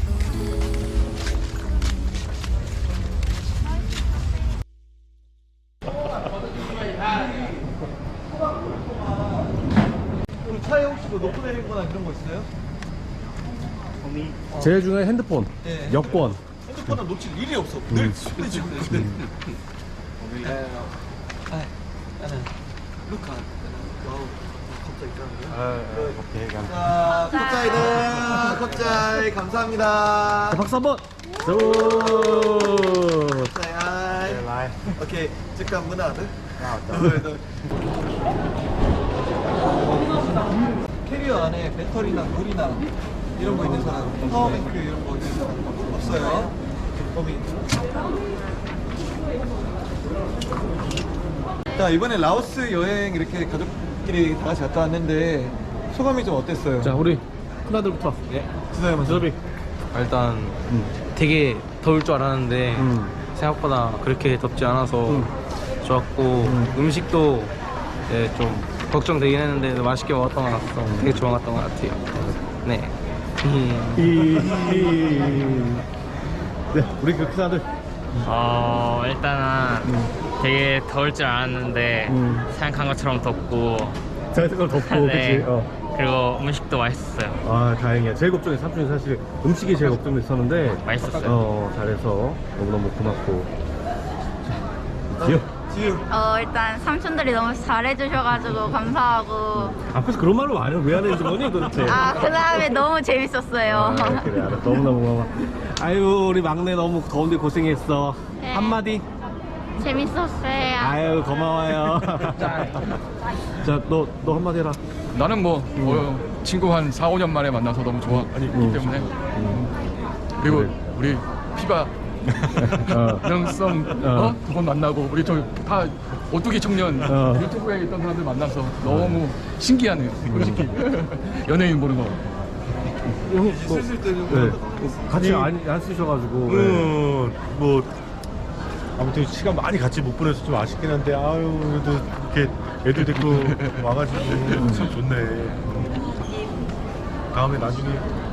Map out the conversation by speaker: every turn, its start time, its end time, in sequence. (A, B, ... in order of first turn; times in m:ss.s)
0:08.4-0:09.5 A
0:10.4-0:12.5 A
0:14.5-0:14.8 A
0:14.6-0:16.4 B
0:15.6-0:19.2 A
0:21.5-0:22.5 A
0:23.0-0:30.6 A
0:25.5-0:27.0 C
0:27.0-0:28.0 D
0:30.5-0:33.5 B
0:33.4-0:37.4 A
0:34.3-0:34.7 C
0:39.5-0:47.5 A
0:51.8-0:57.0 A
0:56.8-0:58.2 B
0:58.7-0:59.3 A
0:59.0-0:59.4 B
0:59.9-1:05.3 E
1:00.7-1:00.9 B
1:02.8-1:03.2 B
1:05.8-1:07.5 E
1:06.4-1:06.7 B
1:08.1-1:14.4 E
1:10.8-1:11.2 B
1:14.0-1:15.8 B
1:16.7-1:17.7 B
1:18.2-1:24.0 F
1:19.8-1:20.1 B
1:22.1-1:22.5 B
1:24.3-1:25.7 B
1:24.7-1:27.4 F
1:27.4-1:33.5 B
1:30.7-1:31.4 F
1:35.2-1:36.1 A
1:35.2-1:35.5 B
1:36.1-1:39.8 D
1:39.9-1:42.2 B
1:41.8-1:44.3 D
1:43.7-1:49.0 B
1:48.4-1:48.8 D
1:49.8-1:51.0 D
1:50.8-1:52.6 B
1:53.6-1:54.8 B
1:55.1-1:59.7 G
1:55.8-1:56.1 B
1:58.3-1:59.2 C
1:58.5-1:59.6 B
2:00.4-2:01.9 G
2:00.4-2:00.7 B
2:02.6-2:12.2 G
2:02.6-2:03.3 B
2:04.0-2:04.4 B
2:07.1-2:07.5 B
2:08.8-2:09.2 B
2:10.3-2:10.7 B
2:13.2-2:17.0 B
2:13.4-2:15.2 A
2:15.1-2:15.5 C
2:16.5-2:17.9 C
2:19.0-2:26.0 C
2:22.9-2:23.9 G
2:27.3-2:28.1 C